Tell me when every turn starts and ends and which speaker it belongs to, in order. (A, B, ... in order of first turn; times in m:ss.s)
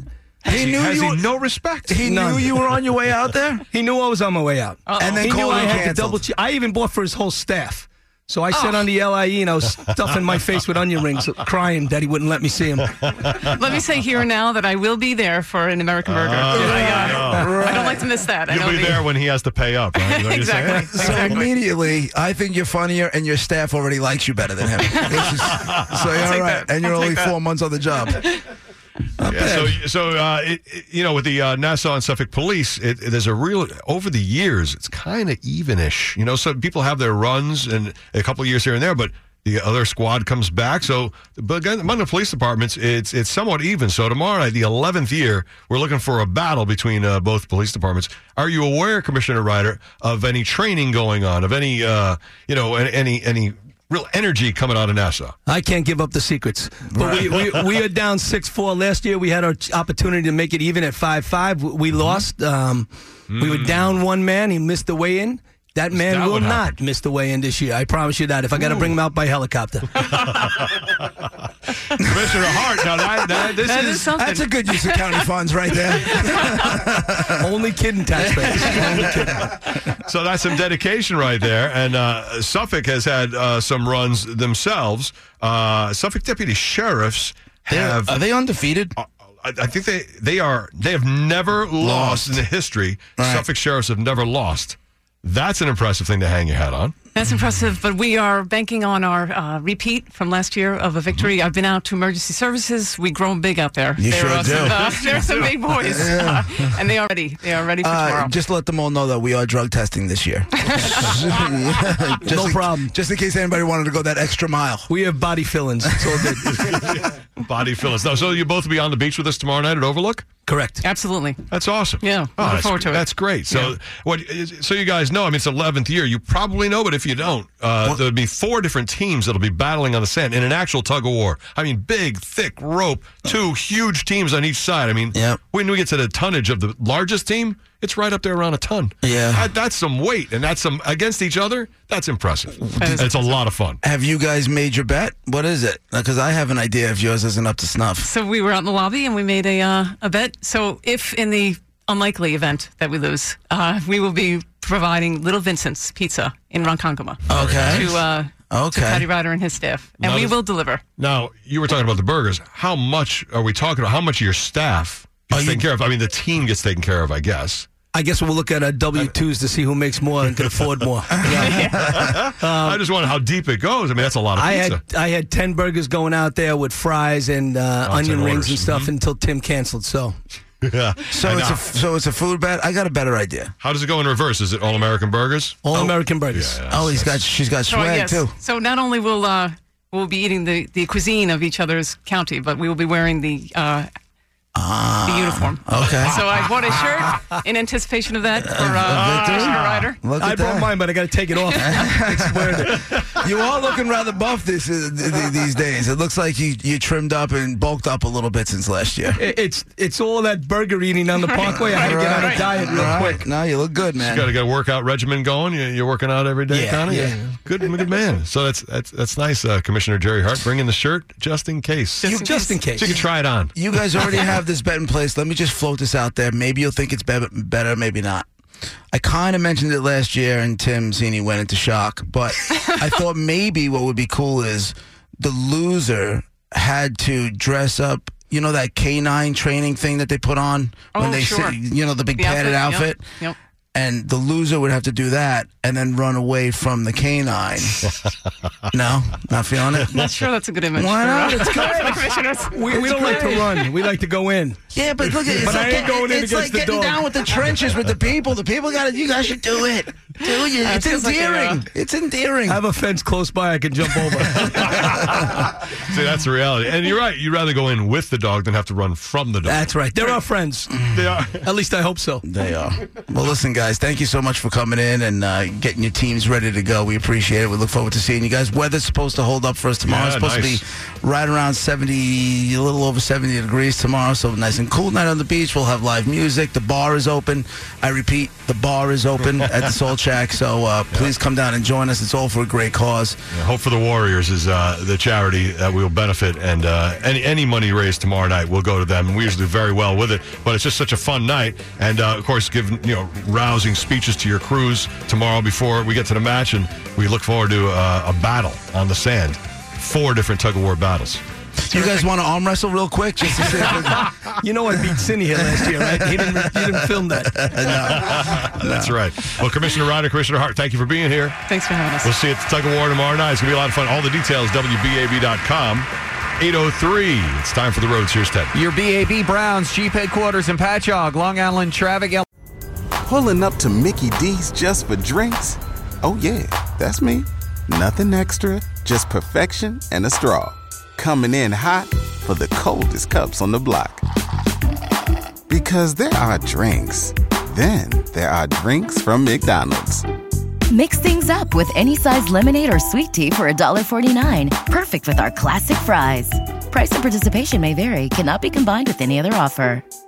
0:00.5-0:01.2 A
0:00.5-0:02.0 B
0:01.9-0:03.6 A
0:02.0-0:02.5 C
0:03.7-0:13.2 C
0:04.9-0:05.7 D
0:05.0-0:06.2 A
0:13.3-0:19.1 D
0:16.1-0:17.6 B
0:16.6-0:17.3 C
0:16.6-0:18.1 A
0:18.5-0:21.4 B
0:20.0-0:21.5 D
0:21.0-0:28.3 A
0:25.0-0:25.6 D
0:26.2-0:27.3 D
0:29.2-0:29.8 C
0:29.2-0:55.4 B
0:55.5-1:10.2 C
1:05.9-1:06.7 B
1:10.1-1:11.0 B
1:11.9-1:14.1 B
1:13.5-1:15.2 D
1:14.1-1:17.4 A
1:16.1-1:16.7 D
1:17.4-1:19.5 C
1:18.4-1:19.6 A
1:19.9-1:28.2 B
1:27.7-1:29.0 A
1:29.0-1:36.9 B
1:31.8-1:32.4 A
1:33.2-1:33.5 A
1:37.2-1:48.3 D
1:44.0-1:44.9 A
1:45.8-1:46.6 A
1:47.8-1:54.9 A
1:50.7-1:51.0 D
1:52.2-1:52.9 C
1:54.9-1:56.5 C
1:56.4-2:00.3 B
2:00.5-2:00.8 C
2:00.8-2:01.4 D
2:01.5-2:23.8 B
2:02.0-2:03.7 D
2:19.0-2:19.5 A
2:22.8-2:23.1 A
2:22.8-2:23.2 D
2:23.8-2:28.1 A
2:28.0-2:40.8 D
2:37.3-2:37.9 A
2:37.3-2:38.0 B
2:38.5-2:39.1 A
2:40.0-2:40.4 B
2:41.0-2:47.7 B
2:45.3-2:45.6 A
2:47.9-2:52.8 C
2:51.2-2:52.0 A
2:51.4-2:51.8 D
2:51.9-2:54.8 B
2:54.4-3:00.2 C
2:57.8-2:58.9 B
3:00.6-3:01.6 B
3:01.1-3:03.5 A
3:03.6-3:07.2 B
3:05.6-3:06.6 C
3:06.7-3:08.3 A
3:07.7-3:13.9 D
3:14.6-3:16.2 A
3:15.0-3:20.0 D
3:18.4-3:20.7 A
3:20.2-3:22.9 C
3:21.6-3:29.2 A
3:29.2-3:33.2 C
3:31.3-3:32.5 D
3:31.7-3:34.3 A
3:34.0-3:42.2 B
3:36.5-3:37.3 C
3:42.0-3:42.6 D
3:42.0-3:48.3 A
3:42.2-3:42.9 C
3:42.7-3:43.5 B
3:48.9-4:03.0 A
4:00.9-4:01.6 D
4:02.2-4:03.4 D
4:03.7-4:08.0 A
4:08.7-4:10.0 A
4:09.9-4:13.6 D
4:10.8-4:12.0 A
4:12.5-4:17.1 C
4:12.7-4:13.3 A
4:14.7-4:22.6 A
4:20.2-4:21.6 D
4:22.5-4:25.2 C
4:24.6-4:29.7 B
4:29.4-4:32.2 C
4:30.9-4:31.3 B
4:32.2-4:53.2 A
4:39.9-4:40.6 B
4:53.3-5:11.2 B
5:11.6-5:14.2 A
5:14.0-5:17.5 C
5:15.6-5:18.9 A
5:18.0-5:21.4 B
5:21.5-5:22.1 D
5:22.0-5:28.6 B
5:28.5-5:32.3 E
5:33.0-5:44.0 F
5:45.5-5:50.1 F
5:50.7-5:59.8 G